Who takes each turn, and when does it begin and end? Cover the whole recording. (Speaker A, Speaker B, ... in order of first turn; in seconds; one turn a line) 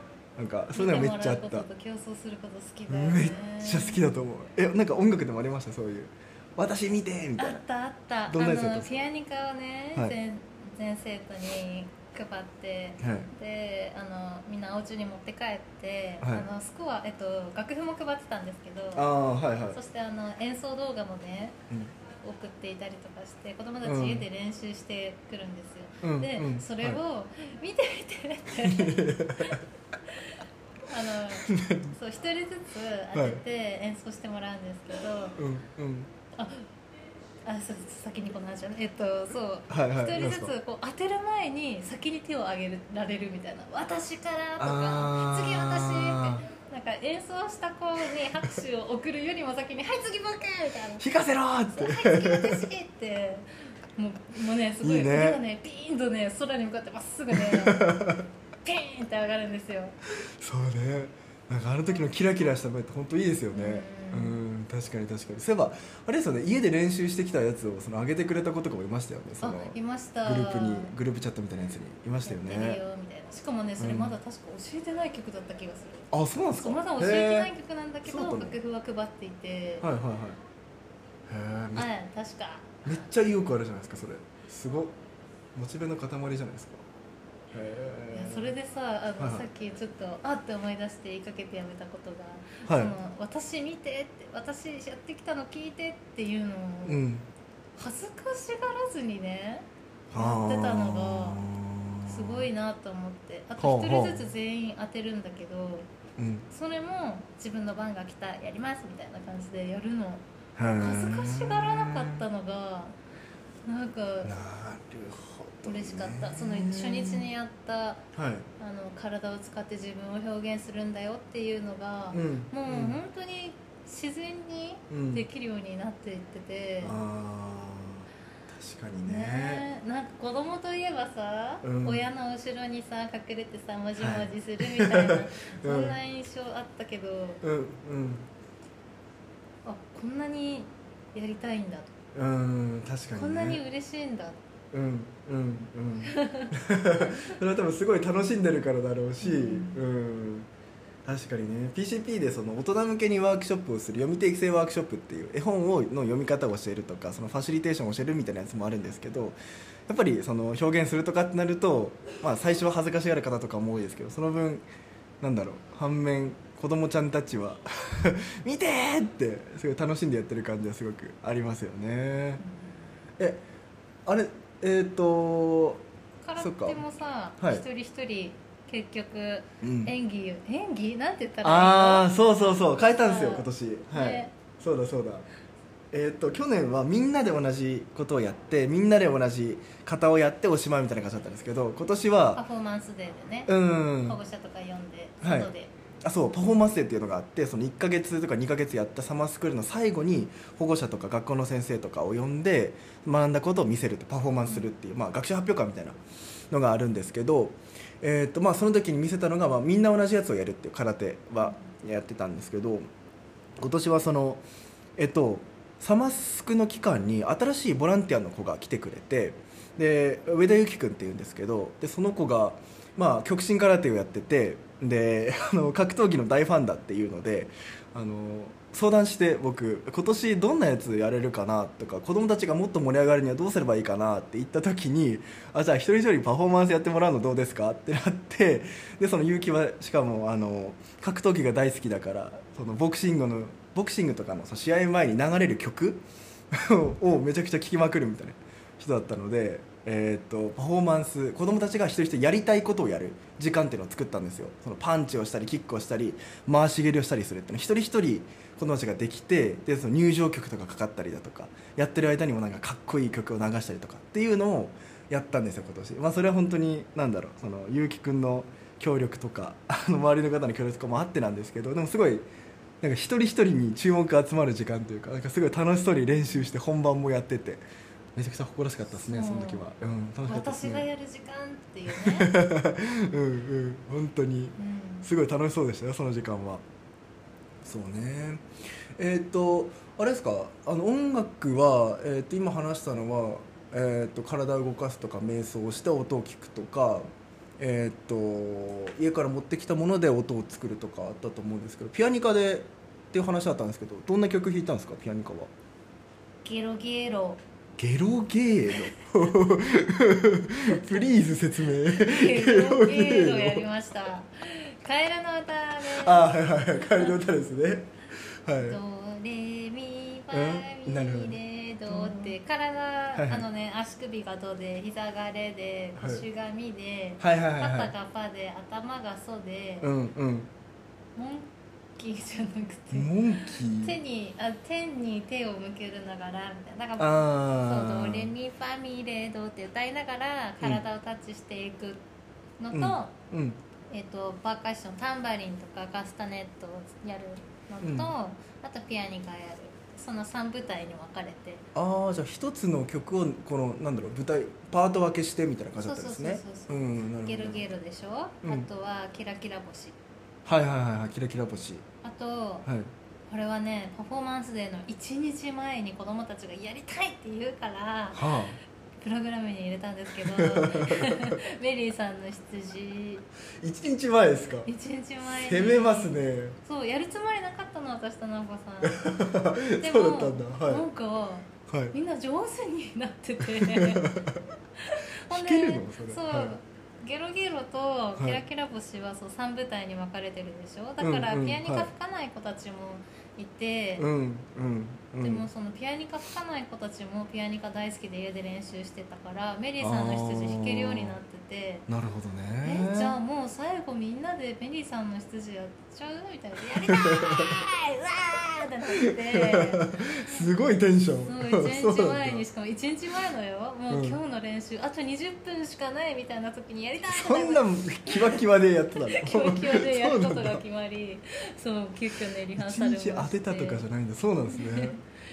Speaker A: 0.4-1.6
Speaker B: 0.7-4.0
Speaker A: 2.9-7.6
Speaker B: 7.4-19.1
Speaker A: 8.3-9.0
Speaker A: 13.0-13.3
Speaker A: 16.2-16.5
Speaker A: 18.9-19.8
Speaker B: 19.7-21.6
Speaker B: 22.2-35.4
Speaker A: 23.8-24.2
Speaker A: 26.0-27.0
Speaker A: 28.6-29.6
Speaker A: 31.5-31.9
Speaker A: 33.1-33.4
Speaker A: 35.4-36.1
Speaker B: 36.3-36.7
Speaker B: 37.4-51.0
Speaker A: 39.7-40.5
Speaker A: 44.6-46.4
Speaker A: 51.0-52.7
Speaker B: 51.7-57.9
Speaker A: 54.8-55.4
Speaker A: 57.3-58.3
Speaker B: 58.6-60.0
Speaker A: 60.4-72.8
Speaker B: 63.5-64.4
Speaker B: 69.4-70.9
Speaker B: 72.2-79.8
Speaker A: 73.8-74.2
Speaker A: 76.1-77.5
Speaker A: 78.0-78.6
Speaker A: 79.8-80.4
Speaker A: 81.3-81.9
Speaker B: 81.7-82.9
Speaker A: 82.8-84.9
Speaker A: 85.5-86.8
Speaker A: 87.5-88.5
Speaker B: 88.1-97.0
Speaker A: 89.2-89.5
Speaker A: 92.6-92.9
Speaker A: 96.8-97.3
Speaker B: 97.8-101.5
Speaker A: 100.1-102.5
Speaker B: 102.0-105.9
Speaker A: 103.6-104.3
Speaker A: 106.2-106.5
Speaker B: 106.5-110.2
Speaker A: 110.5-112.2
Speaker B: 110.8-113.0
Speaker B: 113.6-114.3
Speaker A: 114.2-117.3
Speaker B: 115.6-118.0
Speaker A: 118.1-118.5
Speaker B: 118.6-127.0
Speaker A: 122.1-123.0
Speaker A: 124.9-125.2
Speaker A: 126.8-129.7
Speaker B: 129.1-137.4
Speaker A: 131.6-132.0
Speaker A: 134.0-136.0
Speaker A: 137.4-138.3
Speaker B: 139.6-142.0
Speaker A: 142.1-143.6
Speaker B: 143.1-144.4
Speaker A: 144.7-150.5
Speaker B: 146.1-146.5
Speaker B: 149.2-149.8
Speaker A: 151.0-159.4
Speaker A: 159.9-164.6
Speaker A: 165.2-172.4
Speaker B: 172.4-172.8
Speaker A: 173.2-173.4
Speaker A: 174.1-175.8
Speaker B: 176.2-182.1
Speaker A: 176.4-176.8
Speaker A: 177.4-177.6
Speaker A: 179.6-179.9
Speaker A: 181.4-185.3
Speaker B: 183.0-184.3
Speaker A: 185.9-192.4
Speaker B: 192.3-195.7
Speaker A: 193.5-194.2
Speaker A: 195.2-195.5
Speaker A: 196.0-206.0
Speaker A: 206.5-212.9
Speaker A: 213.6-214.4
Speaker A: 215.0-272.2
Speaker A: 272.8-277.6
Speaker A: 278.1-280.9
Speaker B: 279.1-279.6
Speaker B: 280.2-282.3
Speaker A: 281.9-286.6
Speaker B: 284.6-285.1
Speaker A: 287.6-297.1
Speaker A: 297.6-305.5
Speaker B: 306.4-307.4
Speaker A: 307.8-313.6
Speaker B: 310.6-311.2
Speaker B: 311.9-316.3
Speaker A: 315.9-318.8
Speaker B: 316.8-317.1
Speaker B: 318.6-329.9
Speaker A: 320.3-322.3
Speaker A: 323.1-323.4
Speaker A: 326.0-326.2
Speaker A: 327.2-327.9
Speaker A: 329.8-330.5
Speaker B: 331.1-342.0
Speaker A: 332.9-334.0
Speaker A: 337.0-338.3
Speaker B: 342.6-343.1
Speaker A: 342.7-343.6
Speaker B: 343.9-351.6
Speaker A: 347.8-348.1
Speaker A: 351.7-357.6
Speaker B: 355.8-360.0
Speaker A: 358.4-358.7
Speaker A: 360.4-361.9
Speaker B: 362.0-362.7
Speaker A: 362.6-362.9
Speaker B: 363.3-368.4
Speaker A: 368.1-368.6
Speaker B: 369.0-373.3
Speaker A: 370.2-371.4
Speaker A: 373.6-374.7
Speaker B: 374.6-384.2
Speaker A: 375.2-376.6
Speaker A: 378.8-380.8
Speaker A: 381.7-381.9
Speaker A: 383.4-384.4
Speaker B: 384.8-394.1
Speaker A: 385.3-386.6
Speaker A: 391.0-391.9
Speaker A: 394.0-395.5
Speaker B: 395.2-401.9
Speaker A: 399.8-401.2
Speaker A: 401.9-403.2
Speaker B: 402.6-410.4
Speaker A: 406.9-407.6
Speaker A: 409.0-412.4
Speaker B: 411.2-418.4
Speaker A: 413.9-414.2
Speaker A: 417.1-420.6
Speaker B: 419.0-423.8
Speaker A: 422.5-425.0
Speaker B: 424.5-425.0